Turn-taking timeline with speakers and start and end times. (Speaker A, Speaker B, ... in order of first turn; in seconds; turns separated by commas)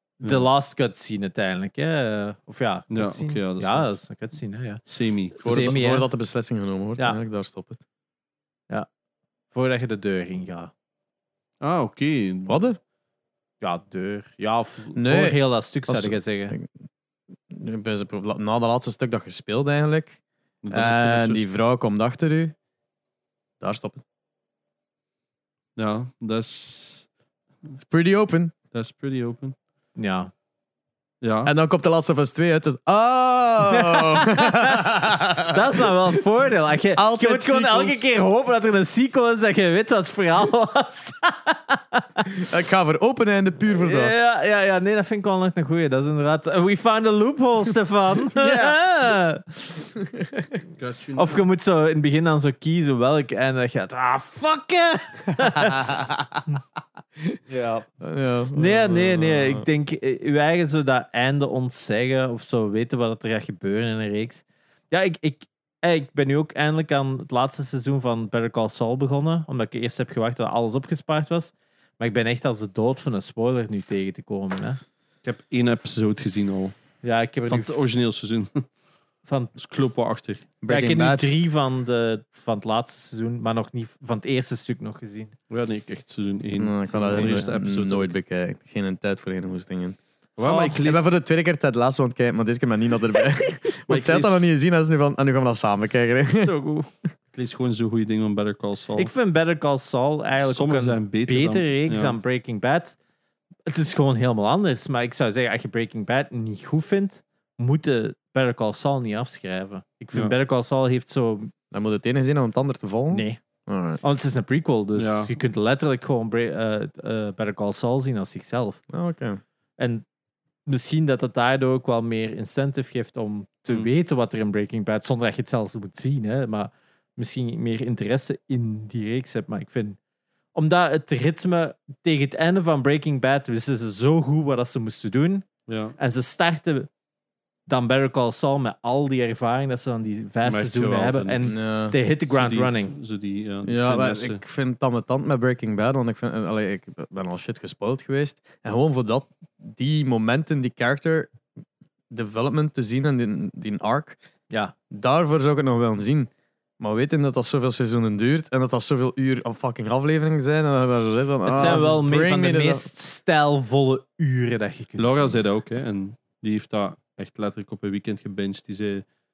Speaker A: 0.2-4.8, Speaker B: 0.2-0.5, Speaker B: 2.9-3.9, Speaker B: 4.9-5.8, Speaker A: 5.4-6.1, Speaker C: 5.4-7.8, Speaker A: 9.5-10.7, Speaker B: 11.6-12.6, Speaker C: 12.5-12.8, Speaker A: 13.6-16.5, Speaker C: 14.9-16.7, Speaker C: 17.5-20.2, Speaker B: 20.6-21.5, Speaker C: 20.7-22.5, Speaker C: 23.6-24.0, Speaker B: 25.8-27.1, Speaker C: 27.8-28.5, Speaker B: 28.7-29.6, Speaker A: 29.9-30.3, Speaker B: 31.2-31.5, Speaker C: 31.4-36.1, Speaker A: 33.7-42.3, Speaker C: 37.0-38.0, Speaker C: 42.3-44.1, Speaker A: 43.7-49.2, Speaker C: 48.3-49.4, Speaker C: 50.0-50.5, Speaker B: 50.8-51.4, Speaker A: 51.1-56.0, Speaker C: 55.6-56.4, Speaker A: 57.5-57.9, Speaker C: 58.0-59.6, Speaker A: 58.5-74.8, Speaker B: 75.2-76.7, Speaker A: 77.0-77.7, Speaker B: 77.5-78.7, Speaker A: 79.2-79.9, Speaker B: 79.6-80.5, Speaker C: 80.6-81.3, Speaker A: 80.7-85.3, Speaker B: 85.5-88.1, Speaker C: 86.6-96.5, Speaker A: 87.0-87.2, Speaker B: 90.3-91.0, Speaker B: 93.9-94.4, Speaker B: 96.3-99.1, Speaker A: 99.0-103.0, Speaker B: 100.4-102.2, Speaker A: 103.7-111.5, Speaker C: 111.7-114.0, Speaker A: 113.1-113.4, Speaker A: 114.0-118.8, Speaker B: 115.0-115.3, Speaker C: 118.9-119.4, Speaker A: 119.8-120.0, Speaker A: 120.7-130.0, Speaker A: 130.5-136.9, Speaker B: 135.7-135.9, Speaker A: 137.7-142.9, Speaker B: 140.4-141.4, Speaker C: 141.4-141.9, Speaker B: 142.3-144.4, Speaker C: 143.7-151.3, Speaker C: 152.1-154.2, Speaker C: 154.9-162.9, Speaker A: 161.4-165.4, Speaker B: 161.5-161.9, Speaker B: 165.0-169.1